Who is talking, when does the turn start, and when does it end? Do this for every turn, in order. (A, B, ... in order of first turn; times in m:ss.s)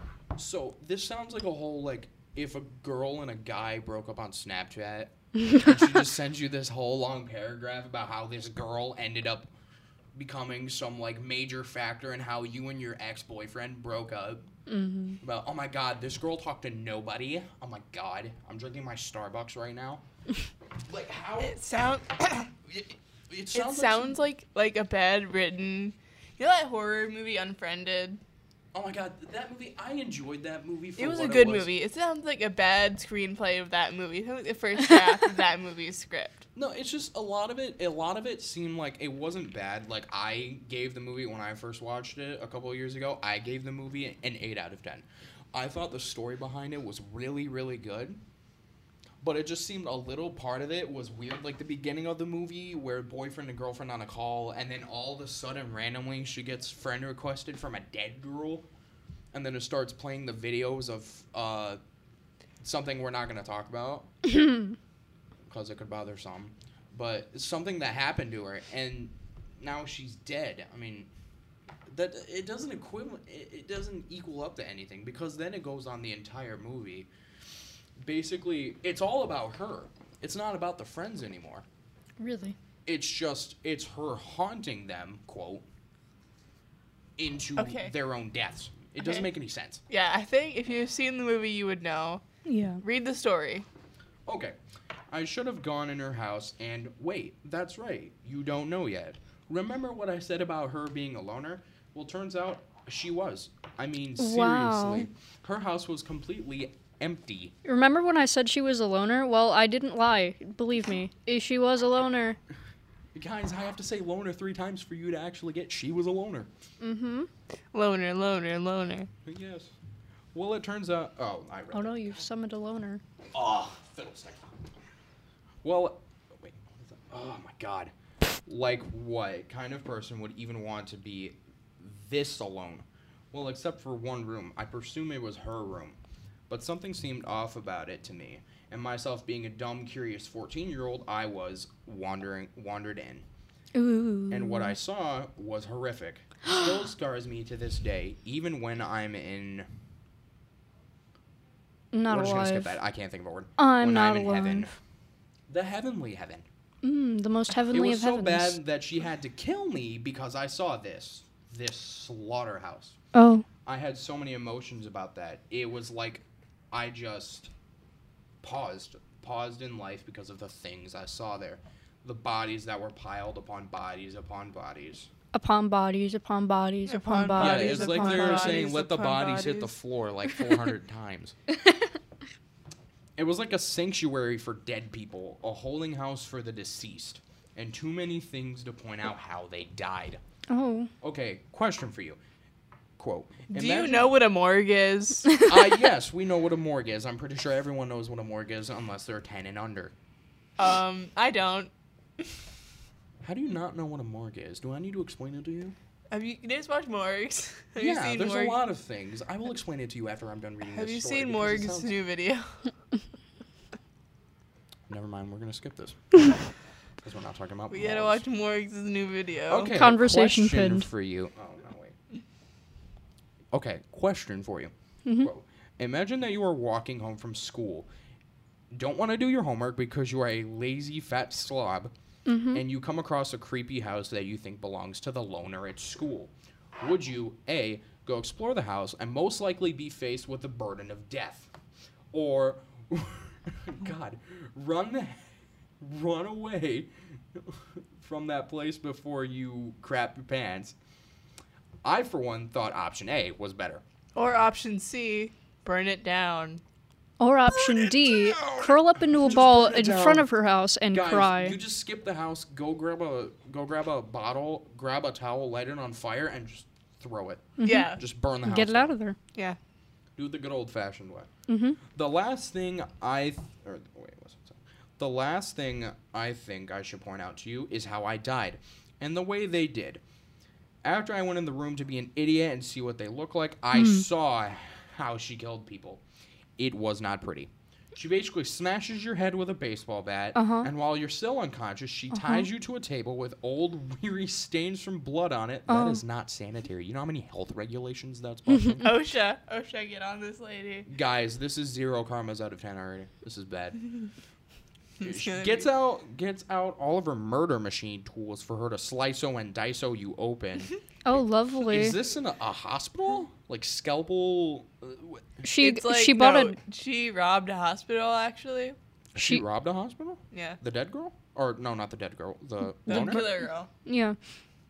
0:00.4-0:09.5 A
0:10.2-0:14.5 A
0:14.7-0:15.2 B
0:15.2-0:20.0 A
0:20.9-0:21.6 A
0:21.4-0:22.5 C
0:22.7-0:24.2 A
0:23.5-0:28.2 C
0:28.7-0:31.7 A
0:31.0-0:36.4 C
0:36.6-0:48.2 A
0:49.2-0:58.7 A
0:59.3-1:01.8 A
1:02.6-1:04.3 A
1:05.5-1:11.1 A
1:11.9-1:17.1 A
1:18.0-1:21.6 A
1:22.2-1:22.6 B
1:22.9-1:25.6 A
1:27.2-1:29.8 A
1:27.6-1:27.9 C
1:29.0-1:29.3 C
1:29.9-1:32.2 C
1:32.4-1:32.8 B
1:32.8-1:33.7 C
1:34.3-1:34.6 A
1:35.1-1:47.5 A
1:44.2-1:45.1 B
1:47.6-1:52.4 B
1:53.1-1:56.5 A
1:56.8-1:57.3 B
1:57.7-1:59.1 C
1:59.2-1:59.7 A
2:00.3-2:02.2 A
2:01.7-2:03.0 B
2:03.3-2:04.5 A
2:05.6-2:07.9 A
2:08.5-2:16.0 A
2:16.5-2:23.2 A
2:23.8-2:24.8 B
2:24.3-2:29.7 A
2:31.9-2:32.7 B
2:32.1-2:34.8 A
2:33.6-2:34.7 B
2:35.5-2:36.4 A
2:36.8-2:38.6 B
2:37.7-2:43.0 A
2:43.1-2:43.4 B
2:43.7-2:47.5 A
2:48.4-2:55.1 A
2:55.3-2:58.6 B
2:56.9-2:59.8 C
2:57.4-3:01.4 A
3:03.2-3:10.2 A
3:10.5-3:10.9 B
3:11.0-3:12.2 A
3:13.0-3:14.1 A
3:13.5-3:15.4 C
3:15.4-3:19.9 A
3:20.6-3:21.7 C
3:23.2-3:25.8 A
3:26.1-3:28.6 C
3:27.8-3:32.0 A
3:30.6-3:32.6 C
3:34.9-3:36.0 A
3:37.0-3:38.2 A
3:37.7-3:39.7 C
3:39.5-3:42.0 A
3:39.7-3:40.9 B
3:43.5-3:47.9 A
3:48.7-3:51.9 A
3:52.3-3:52.6 B
3:52.5-4:01.5 A
4:02.1-4:10.8 A
4:11.8-4:13.8 A
4:14.2-4:16.6 C
4:17.2-4:21.6 B
4:17.5-4:20.3 A
4:20.9-4:29.0 A
4:27.6-4:27.9 B
4:27.6-4:28.0 C
4:28.4-4:29.2 B
4:30.2-4:31.3 A
4:31.5-4:31.8 B
4:31.9-4:40.0 A
4:40.8-4:46.0 A
4:43.7-4:44.0 B
4:46.6-4:58.9 A
4:50.4-4:50.7 B
4:52.1-4:52.5 B
4:55.7-4:56.0 B
4:58.8-5:00.9 C
5:00.9-5:03.8 A
5:05.0-5:05.7 C
5:05.0-5:15.4 A
5:11.0-5:12.0 B
5:15.4-5:16.6 B
5:15.6-5:18.8 C
5:19.2-5:23.3 A
5:20.3-5:20.6 C
5:22.9-5:23.3 B
5:22.9-5:23.7 C
5:23.8-5:24.2 B